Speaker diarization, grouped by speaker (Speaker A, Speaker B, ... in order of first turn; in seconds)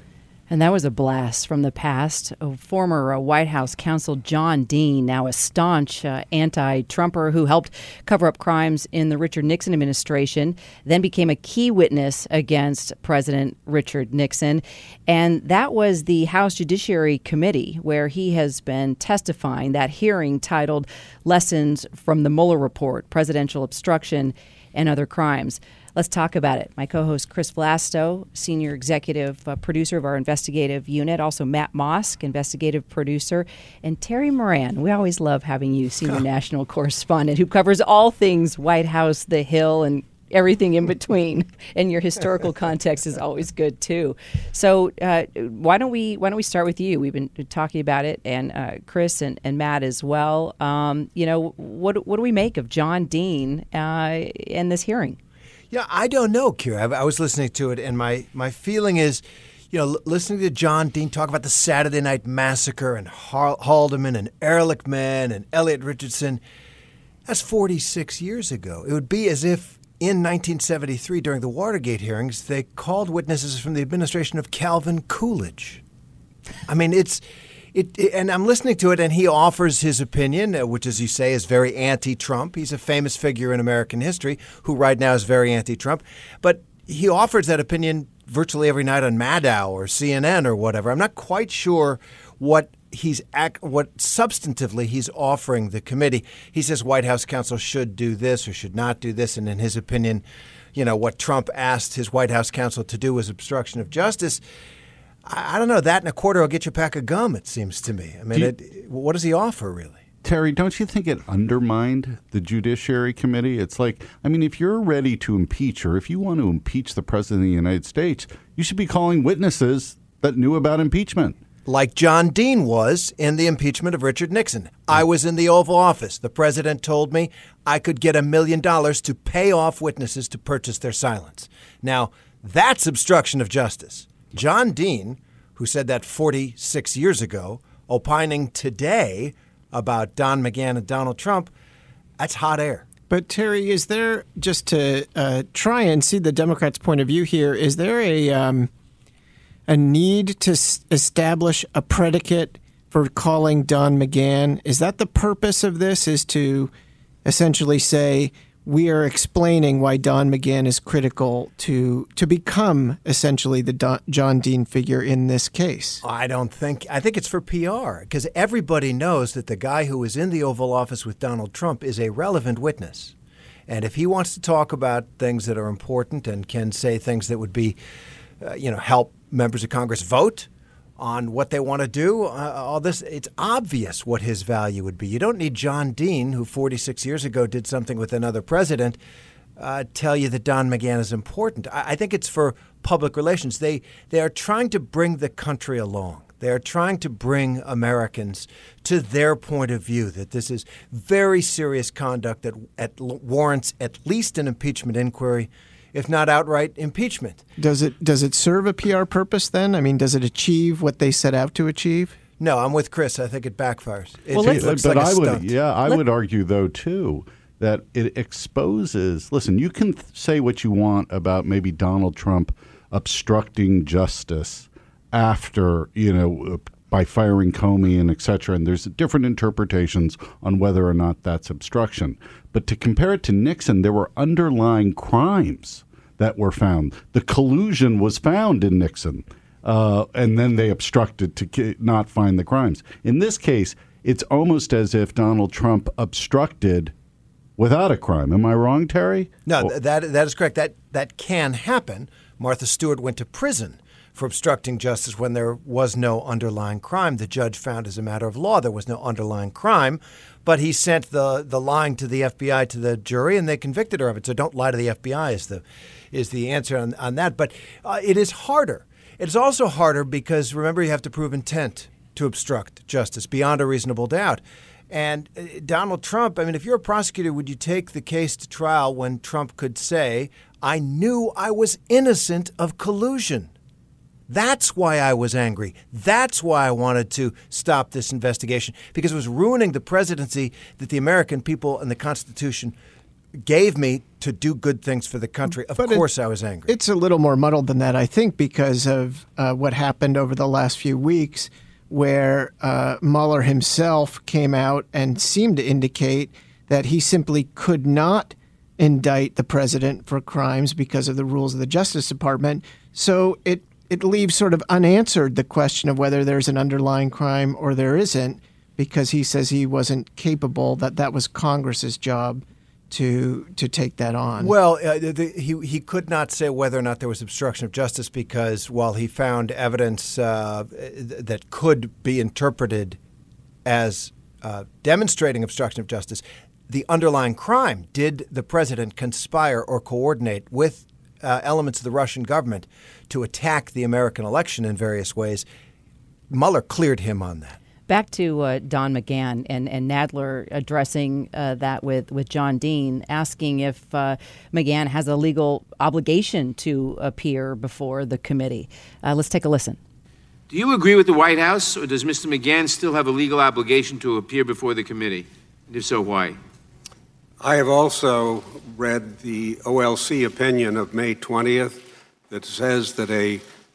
Speaker A: 0.5-55.2, 347.9-359.8
Speaker B: 55.7-66.4, 67.3-75.8, 76.7-77.2, 77.7-100.2, 100.8-104.4, 105.3-110.0, 121.7-141.5, 142.2-142.9, 166.0-173.1, 173.7-177.8, 178.4-189.0, 189.6-207.4, 212.4-215.5, 249.5-283.5, 284.3-292.8, 293.4-296.7, 324.4-333.0, 333.6-345.4, 346.3-347.6
Speaker C: 110.2-121.4, 214.3-246.9, 247.6-249.7
Speaker D: 143.1-148.7, 149.7-156.7, 157.2-166.0, 207.6-212.2, 295.8-296.1, 296.7-324.5
Speaker E: 360.5-366.4
Speaker F: 367.4-373.4